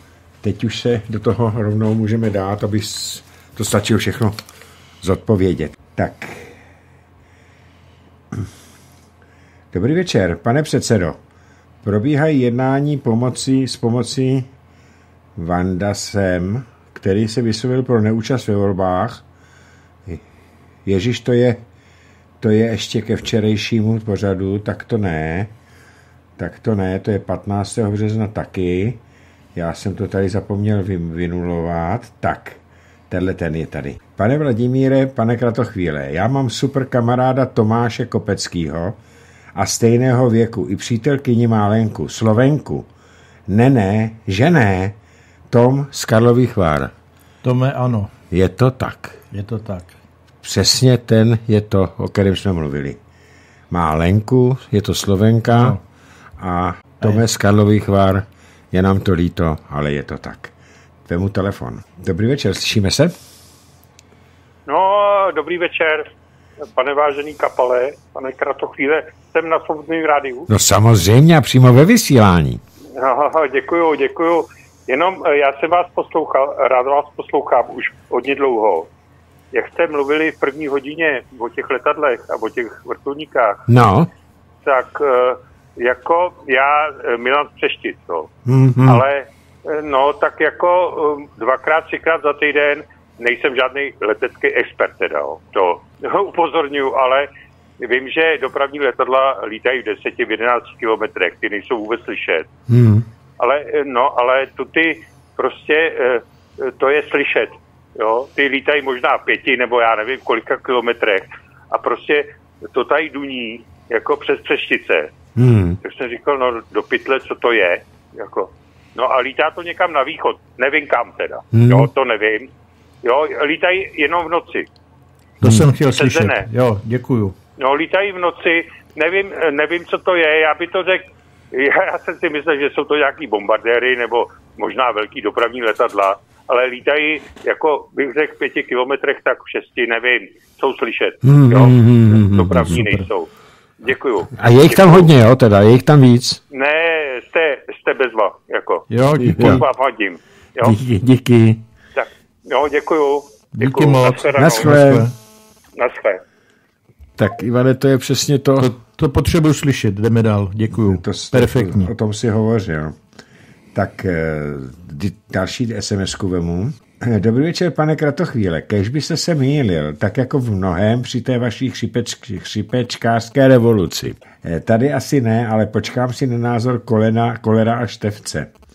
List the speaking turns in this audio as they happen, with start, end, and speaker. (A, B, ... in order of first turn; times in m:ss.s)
0:00.4-0:04.4 A
0:05.0-0:06.5 A
0:09.7-0:11.2 A
0:11.8-0:14.5 A
0:15.4-0:19.2 A
0:20.8-0:21.6 A
0:22.4-0:25.5 A
0:26.4-0:29.0 A
0:29.5-0:32.6 A
0:33.1-0:39.0 A
0:39.6-0:42.9 A
0:43.5-0:45.0 A
0:45.5-0:46.9 A
0:47.4-0:48.1 B
0:48.3-0:49.2 A
0:49.3-0:50.0 B
0:50.4-0:53.0 A
0:53.7-0:55.8 A
0:55.5-0:55.8 B
0:56.4-1:00.5 A
1:01.1-1:03.1 A
1:04.7-1:06.1 C
1:06.7-1:10.5 C
1:10.5-1:12.6 A
1:12.9-1:18.9 C
1:19.5-1:23.6 C
1:23.7-1:24.1 A
1:24.6-1:37.3 C
1:28.4-1:29.0 A
1:37.8-1:42.5 C
1:42.7-1:43.0 A
1:43.4-1:55.1 C
1:55.4-1:55.8 A
1:55.8-2:02.5 C
2:01.5-2:01.9 A
2:03.0-2:04.7 C
2:05.4-2:05.6 A
2:05.4-2:07.4 B
2:06.0-2:06.5 C
2:07.6-2:23.3 C
2:21.2-2:22.8 A
2:22.6-2:23.0 B
2:23.8-2:25.1 C
2:24.4-2:26.4 A
2:26.5-2:28.9 C
2:28.9-2:29.6 B
2:29.2-2:29.6 A
2:29.4-2:30.8 C
2:30.6-2:31.6 A
2:32.0-2:34.7 C
2:33.5-2:35.1 B
2:34.4-2:35.1 A
2:35.8-2:36.2 C
2:37.2-2:38.7 A
2:38.6-2:41.9 B
2:40.7-2:43.0 A
2:43.7-2:58.5 A